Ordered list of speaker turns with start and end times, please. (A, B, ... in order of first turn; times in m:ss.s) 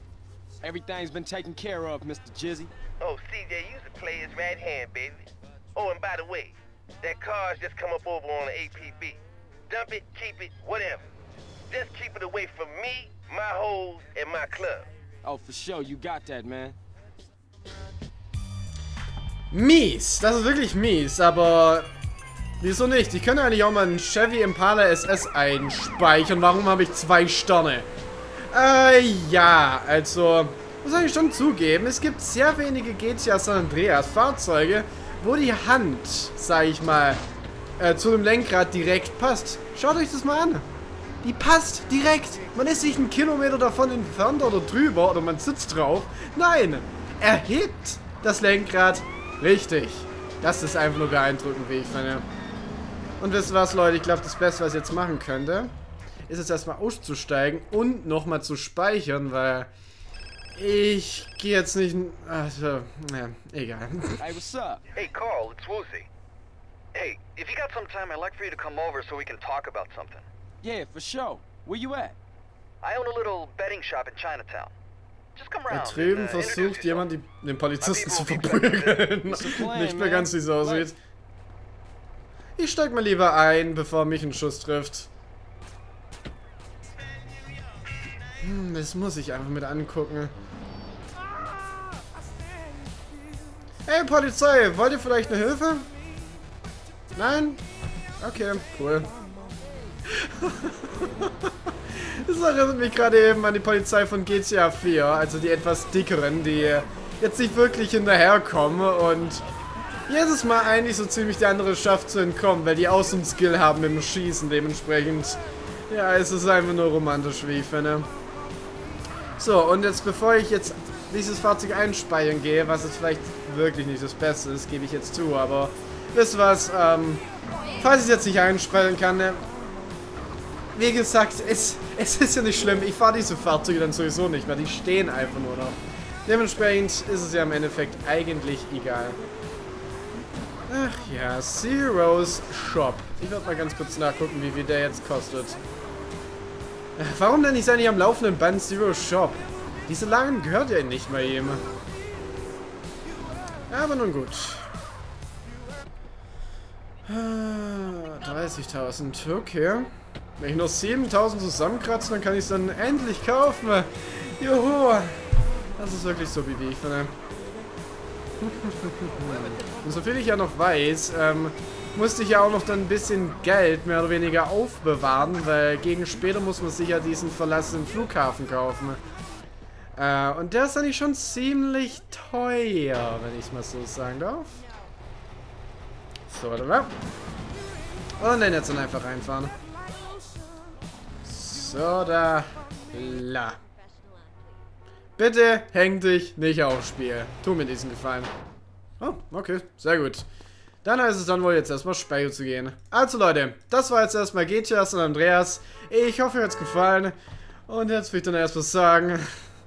0:00.6-0:02.7 A
0:03.0-0:11.0 B
0:11.7-0:14.9 B
0:15.2-0:16.8 A
0:19.5-0:21.9 C
0:22.6-0:27.9 C
0:28.5-0:37.2 C
0:37.8-0:40.6 C
0:41.2-0:52.2 C
0:53.2-0:55.7 C
0:56.3-0:59.7 C
1:00.6-1:04.3 C
1:04.2-1:04.8 A
1:04.9-1:06.1 D
1:06.9-1:10.3 D
1:10.6-1:12.2 A
1:12.8-1:14.7 D
1:15.4-1:17.1 D
1:15.7-1:21.0 C
1:17.8-1:19.1 D
1:19.2-1:20.9 A
1:22.6-1:25.1 C
1:28.4-1:30.3 C
1:33.8-1:35.9 C
1:37.1-1:37.6 C
1:38.2-1:39.1 C
1:40.1-1:49.4 C
1:50.1-1:58.1 C
1:59.4-2:07.2 C
2:07.8-2:09.4 C
2:10.7-2:19.2 C
2:20.7-2:25.6 C
2:27.0-2:31.6 C
2:33.7-2:34.7 C
2:37.1-2:45.2 C
2:45.8-2:47.1 C
2:48.4-2:59.0 C
3:00.0-3:04.6 C
3:06.3-3:06.9 C
3:08.2-3:09.5 C
3:11.2-3:13.6 C
3:15.2-3:18.3 C
3:19.0-3:20.2 C
3:20.8-3:27.1 C
3:27.7-3:29.3 C